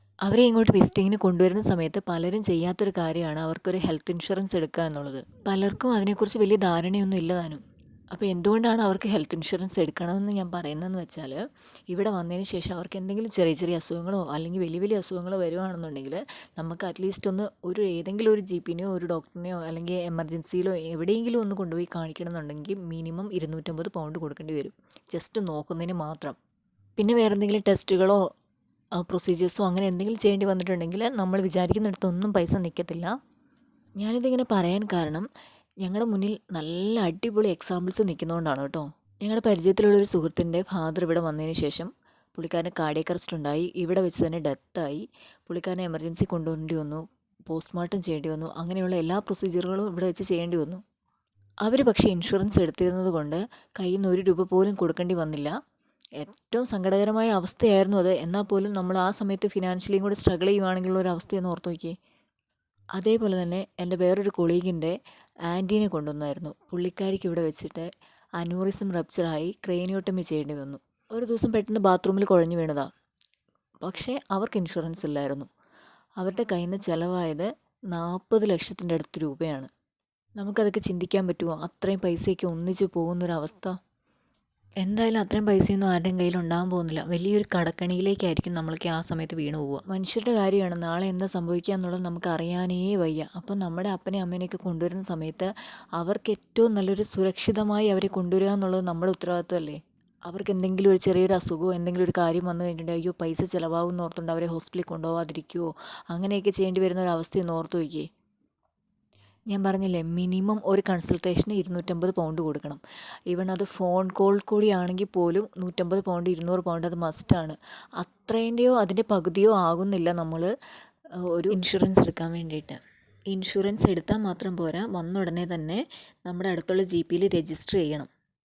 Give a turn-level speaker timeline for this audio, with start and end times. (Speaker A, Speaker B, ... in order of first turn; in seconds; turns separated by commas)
Speaker A: 0.2-26.4, Speaker A: 27.0-28.2, Speaker A: 28.9-33.1, Speaker A: 34.0-35.3, Speaker A: 35.8-50.8, Speaker A: 51.6-55.5, Speaker A: 56.2-61.9, Speaker A: 63.0-64.9, Speaker A: 65.5-67.9, Speaker A: 68.4-72.9, Speaker A: 73.8-75.5, Speaker A: 76.2-79.7, Speaker A: 80.4-83.7, Speaker A: 84.8-108.1, Speaker A: 109.5-120.5, Speaker A: 121.3-122.8, Speaker A: 123.3-128.1